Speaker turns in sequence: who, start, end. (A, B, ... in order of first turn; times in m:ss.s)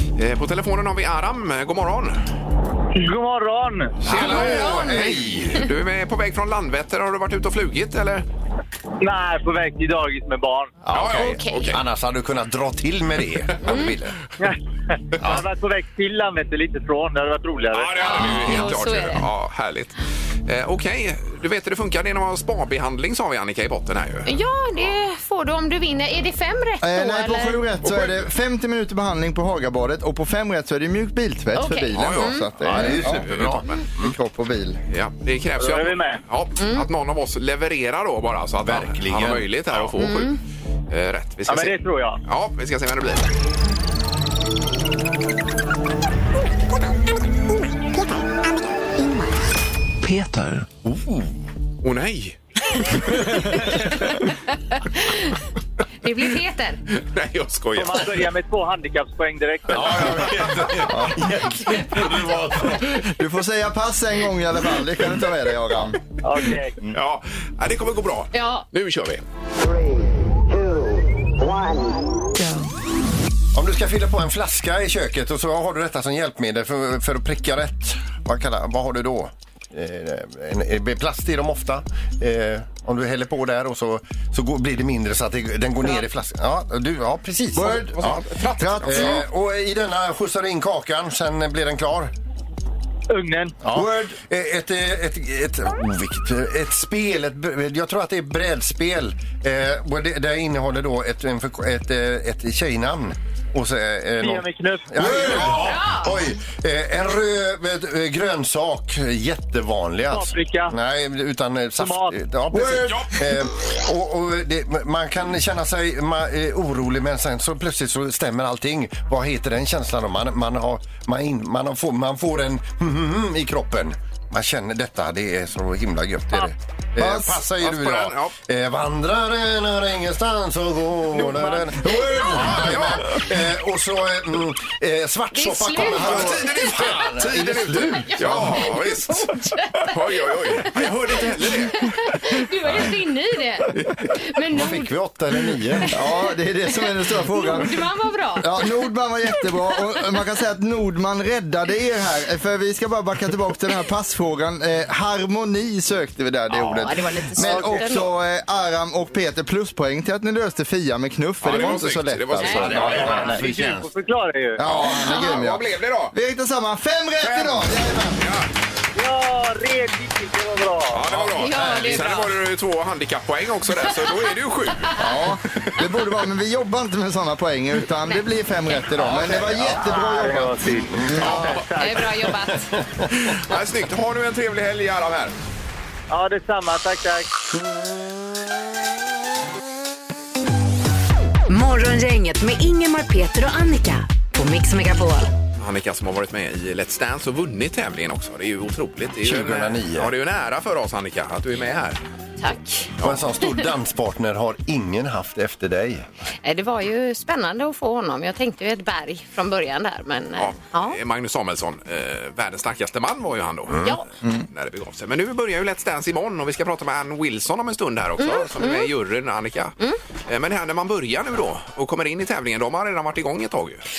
0:00.2-0:02.2 A
0:02.9-0:04.0 B
0:04.0-0:05.7 C
0:04.0-0:08.2 A
0:04.1-0:05.6 D
0:09.0-0:10.8 B
0:10.8-0:14.2 C
0:10.9-0:11.8 A
0:11.1-0:11.8 D
0:13.6-0:14.0 D
0:15.1-0:18.3 B
0:17.7-0:24.3 A
0:18.0-0:19.2 D
0:24.2-0:27.6 D
0:26.8-0:33.3 E
0:27.8-0:28.2 A
0:31.5-0:32.5 D
0:31.9-0:33.8 A
0:32.6-0:34.1 C
0:34.0-0:34.8 E
0:34.9-0:40.4 A
0:35.6-0:36.2 B
0:36.6-0:36.8 D
0:38.6-0:40.1 C
0:40.0-0:40.3 D
0:40.9-0:43.3 A
0:41.5-0:42.2 B
0:51.8-0:53.0 A
0:53.5-0:55.4 D
0:56.0-0:56.8 D
0:56.9-0:58.3 A
0:57.7-1:00.2 B
0:59.7-1:00.9 A
0:59.7-1:02.9 C
1:00.8-1:01.5 E
1:02.8-1:06.0 E
1:06.2-1:06.8 B
1:06.9-1:09.2 A
1:08.3-1:08.6 D
1:13.5-1:28.2 C
1:27.5-1:29.2 E
1:27.6-1:29.2 A
1:28.8-1:32.1 C
1:33.1-1:33.6 B
1:33.6-2:18.8 C
1:33.7-1:34.2 E
1:44.2-1:45.4 B
1:45.0-1:45.7 E
1:45.5-1:46.2 D
1:50.1-1:50.8 B
1:51.8-1:52.2 B
1:52.5-1:53.3 E
2:07.0-2:07.4 E
2:07.6-2:08.3 A
2:11.8-2:12.6 E
2:12.3-2:13.2 A
2:15.3-2:16.8 D
2:15.8-2:21.9 A
2:17.9-2:24.9 D
2:24.5-2:25.9 C
2:25.9-2:27.8 E
2:25.9-2:28.7 D
2:28.4-2:43.4 E
2:36.8-2:38.1 D
2:37.5-2:37.8 B
2:41.4-2:43.3 A
2:42.4-2:42.9 D
2:42.5-2:43.9 C
2:42.6-2:44.6 B
2:44.6-2:48.2 E
2:44.6-2:46.1 A
2:47.2-2:48.5 A
2:49.0-2:51.0 B
2:50.9-2:55.0 A
2:51.1-2:52.2 C
2:51.4-2:52.3 D
2:55.0-3:01.3 E
2:59.0-3:00.1 C
2:59.3-3:02.0 B
3:01.2-3:01.7 A
3:01.7-3:02.7 D
3:02.8-3:03.1 C
3:03.2-3:05.3 A
3:06.1-3:07.3 B
3:11.5-3:15.3 F
3:15.6-3:22.0 A
3:19.2-3:20.1 C
3:22.4-3:23.6 D
3:23.0-3:26.1 C
3:26.4-3:31.0 D
3:30.4-3:39.7 A
3:38.2-3:38.9 D
3:40.3-3:43.8 A